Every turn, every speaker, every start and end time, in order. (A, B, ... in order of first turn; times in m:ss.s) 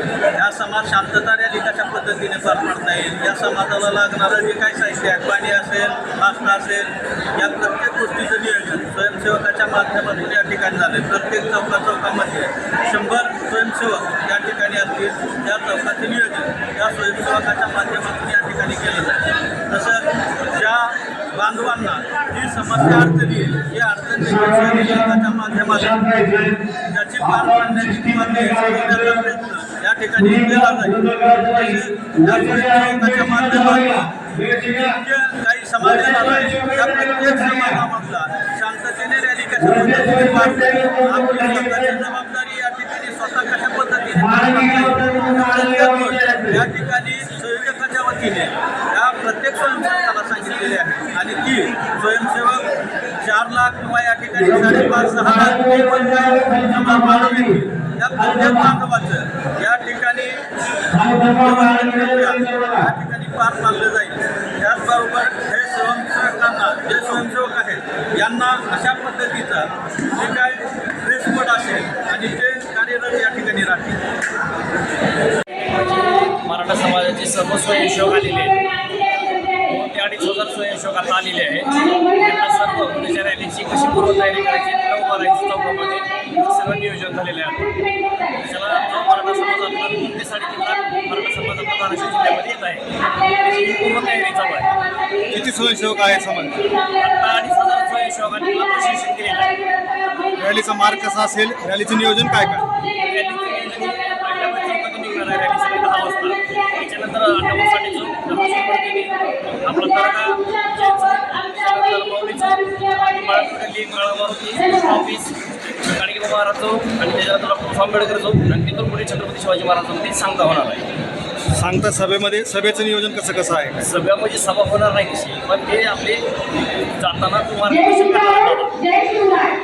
0:00.3-0:26.0 A
0:22.7-0:23.1 B
0:24.2-0:29.3 B
0:26.8-0:34.1 A
0:30.2-0:35.0 B
0:35.0-0:52.7 A
0:35.8-0:37.8 B
0:39.6-0:42.0 B
0:44.1-0:46.6 B
0:53.2-1:00.4 A
0:54.4-0:57.6 B
0:58.2-0:58.7 B
1:00.9-1:02.9 B
1:01.3-1:14.0 A
1:15.6-1:18.6 C
1:19.4-1:27.8 C
1:28.4-1:34.7 C
1:35.3-1:36.6 B
1:36.9-1:39.5 C
1:40.4-1:42.6 B
1:43.0-2:00.9 C
2:01.5-2:03.8 B
2:03.8-2:06.2 C
2:07.0-2:09.4 C